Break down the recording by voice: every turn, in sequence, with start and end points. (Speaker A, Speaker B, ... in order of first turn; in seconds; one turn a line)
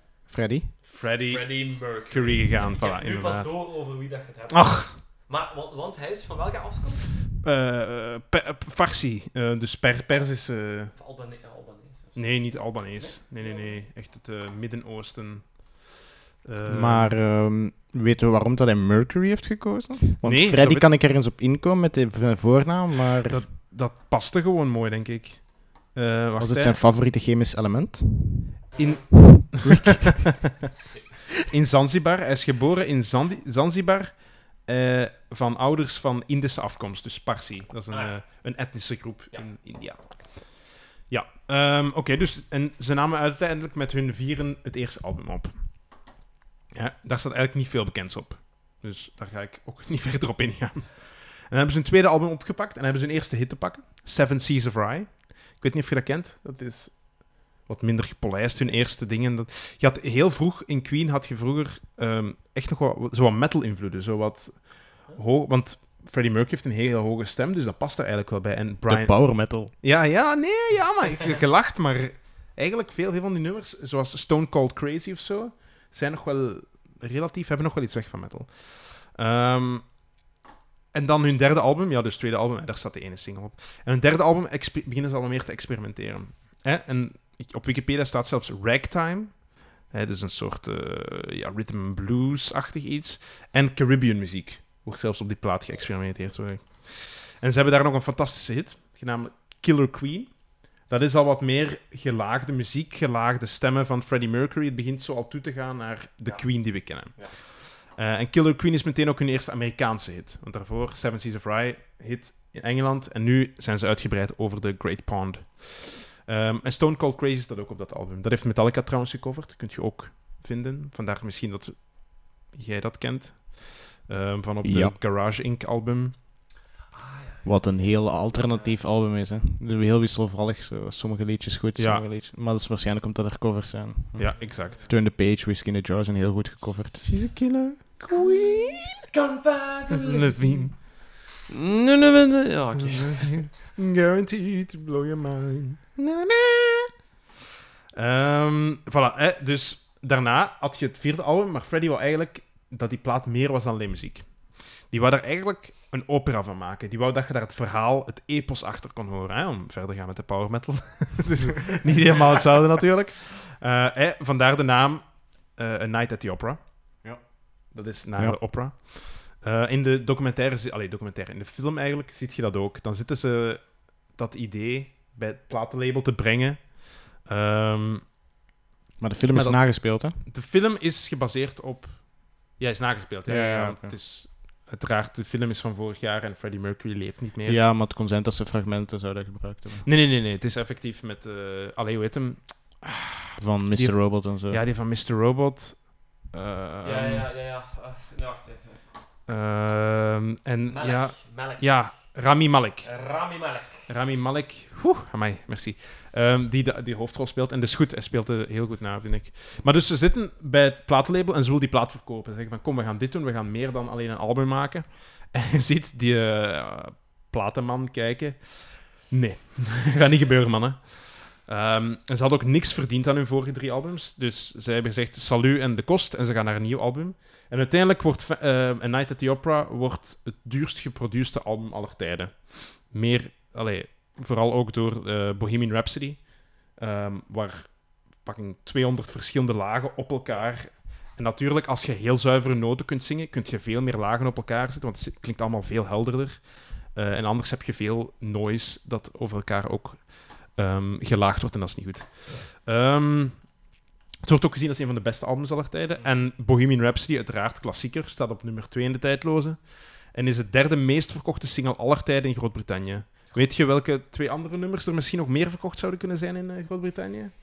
Speaker A: 0.3-0.7
Speaker B: 0.8-3.6
Speaker C: 1.2-7.2
Speaker B: 4.5-5.0
Speaker B: 7.2-10.9
Speaker C: 10.9-13.9
Speaker B: 12.1-15.9
Speaker B: 16.4-17.2
Speaker A: 16.6-23.4
Speaker B: 20.2-20.9
Speaker B: 23.3-26.8
Speaker A: 26.4-28.6
Speaker B: 28.7-29.8
Speaker A: 29.4-30.3
Speaker B: 31.5-46.0
Speaker C: 37.9-38.3
Speaker B: 46.7-80.0
Speaker A: 68.9-69.7
Speaker B: 80.9-126.3
Speaker C: 106.2-107.3
Speaker A: 124.6-125.0
Speaker C: 126.9-128.8
Speaker A: 127.4-137.1
Speaker B: 131.8-132.1
Speaker B: 134.1-134.9
Speaker C: 134.3-134.9
Speaker B: 137.0-138.9
Speaker C: 138.1-140.8
Speaker B: 139.9-140.8
Speaker C: 141.5-143.3
Speaker B: 142.8-146.9
Speaker B: 147.9-167.0
Speaker B: 167.7-178.1
Speaker A: 179.0-180.2
Speaker B: 179.3-187.6
Speaker A: 183.2-184.0
Speaker A: 187.4-189.9
Speaker B: 189.8-197.3
Speaker A: 193.4-194.6
Speaker C: 196.8-198.8
Speaker B: 199.2-202.9
Speaker C: 200.7-202.1
Speaker C: 202.8-203.9
Speaker B: 203.9-253.5
Speaker B: 254.2-267.3
Speaker C: 255.9-256.3